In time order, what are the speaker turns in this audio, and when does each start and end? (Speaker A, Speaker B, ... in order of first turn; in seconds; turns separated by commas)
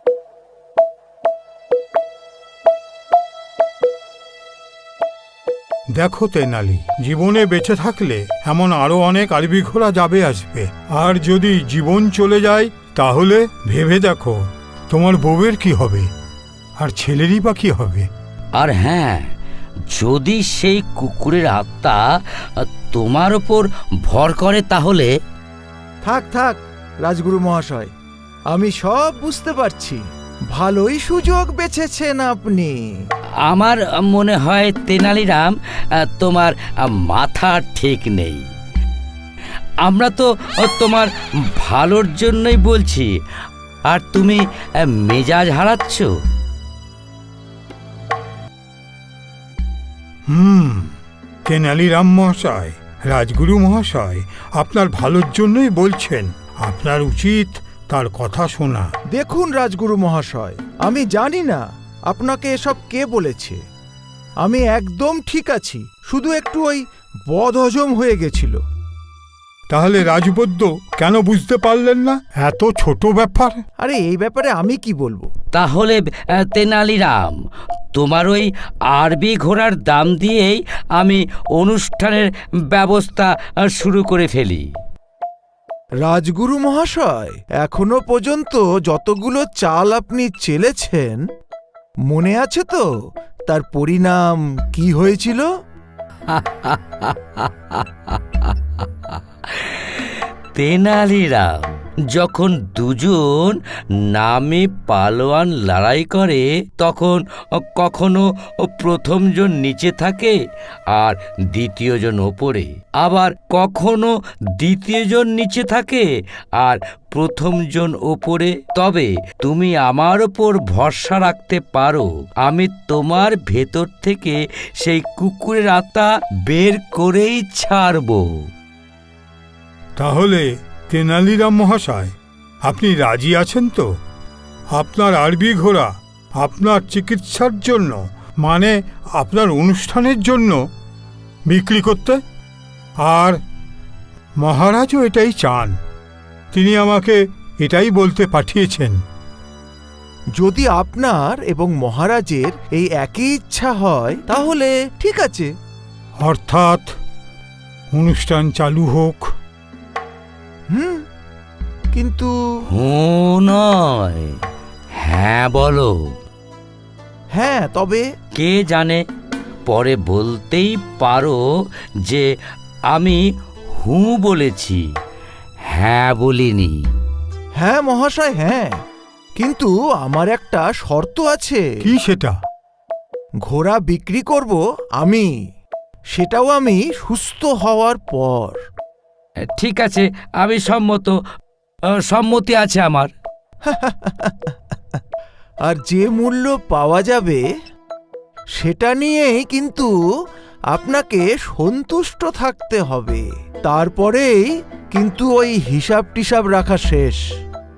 Speaker A: 5.9-14.3, Speaker A: 14.9-16.1, Speaker A: 16.8-18.1, Speaker B: 18.6-19.3, Speaker B: 19.9-22.0, Speaker B: 22.6-25.1, Speaker C: 26.0-27.9, Speaker C: 28.5-32.8, Speaker B: 33.5-38.4, Speaker B: 39.8-43.1, Speaker B: 43.9-46.1, Speaker A: 50.3-50.9, Speaker A: 51.5-58.9, Speaker C: 59.1-63.6, Speaker C: 64.4-68.6, Speaker A: 69.7-73.6, Speaker C: 73.8-75.3, Speaker B: 75.5-77.4, Speaker B: 77.9-84.7, Speaker C: 86.0-91.2, Speaker C: 92.1-92.9, Speaker C: 93.5-95.5, Speaker B: 96.3-110.4, Speaker B: 110.9-116.1, Speaker B: 116.6-128.4, Speaker A: 130.0-132.1, Speaker A: 132.6-133.8, Speaker A: 134.7-140.6, Speaker A: 141.5-142.2, Speaker A: 143.0-143.4, Speaker A: 144.4-145.7, Speaker A: 146.5-148.9, Speaker C: 150.4-155.5, Speaker A: 156.2-156.9, Speaker A: 157.9-159.3, Speaker C: 160.7-161.1, Speaker C: 161.9-162.3, Speaker B: 162.7-164.4, Speaker B: 164.9-166.1, Speaker C: 167.3-168.0, Speaker B: 168.3-169.0, Speaker B: 169.7-171.4, Speaker B: 172.9-173.2, Speaker B: 173.7-174.8, Speaker B: 175.7-176.8, Speaker C: 177.6-178.8, Speaker C: 179.4-181.7, Speaker A: 181.8-182.3, Speaker C: 183.5-185.3, Speaker C: 186.1-188.6, Speaker B: 189.4-191.2, Speaker B: 191.9-193.1, Speaker C: 193.7-195.0, Speaker C: 195.7-197.4, Speaker C: 198.6-199.9, Speaker C: 200.7-207.2